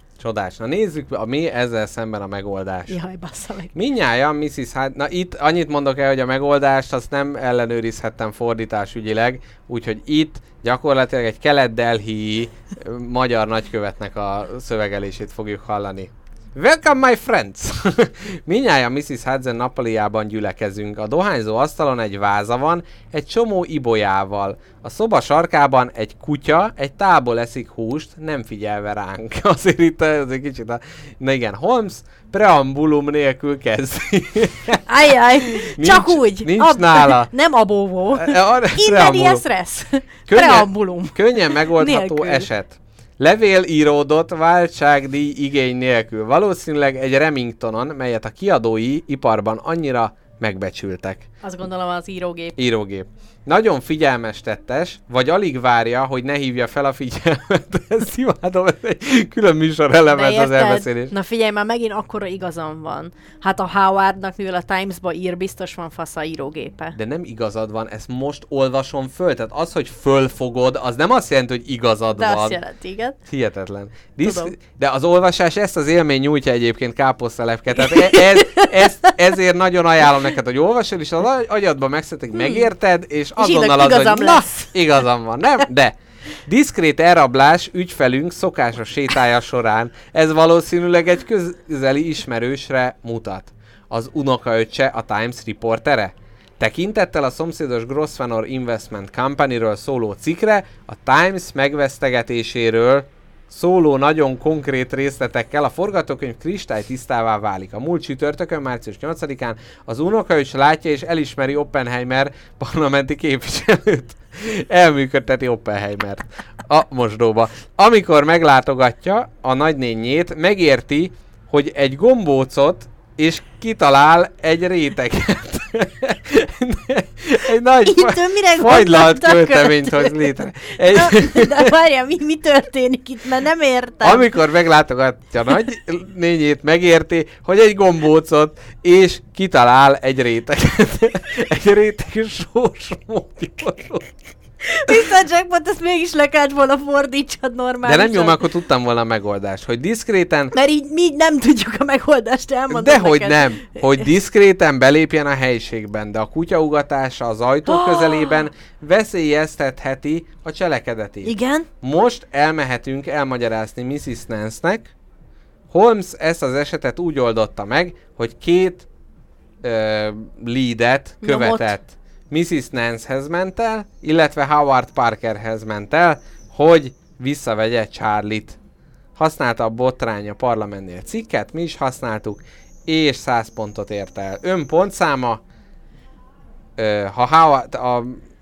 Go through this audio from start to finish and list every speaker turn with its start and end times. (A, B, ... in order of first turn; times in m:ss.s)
0:00.2-0:03.0 A
0:02.9-0:03.7 B
0:03.7-0:34.8 A
0:34.9-0:42.5 B
0:35.5-0:37.3 A
0:38.2-0:39.4 A
0:40.3-0:51.3 A
0:51.4-0:52.6 B
0:52.6-1:01.1 A
1:00.1-1:07.0 B
1:07.0-1:12.6 A
1:12.2-1:13.2 B
1:13.3-2:11.7 A
1:14.2-1:14.6 B
1:17.7-1:19.1 B
1:22.3-1:22.7 B
1:23.4-1:24.8 B
2:07.8-2:14.4 B
2:14.0-2:24.1 A
2:24.6-2:28.4 B
2:27.8-2:30.6 A
2:30.5-2:34.1 B
2:32.7-2:44.9 A
2:37.7-2:38.5 B
2:41.2-2:41.7 B
2:45.7-2:48.9 A
2:49.6-2:58.6 A
2:51.2-2:51.8 B
2:59.2-3:05.4 A
3:06.8-3:08.2 A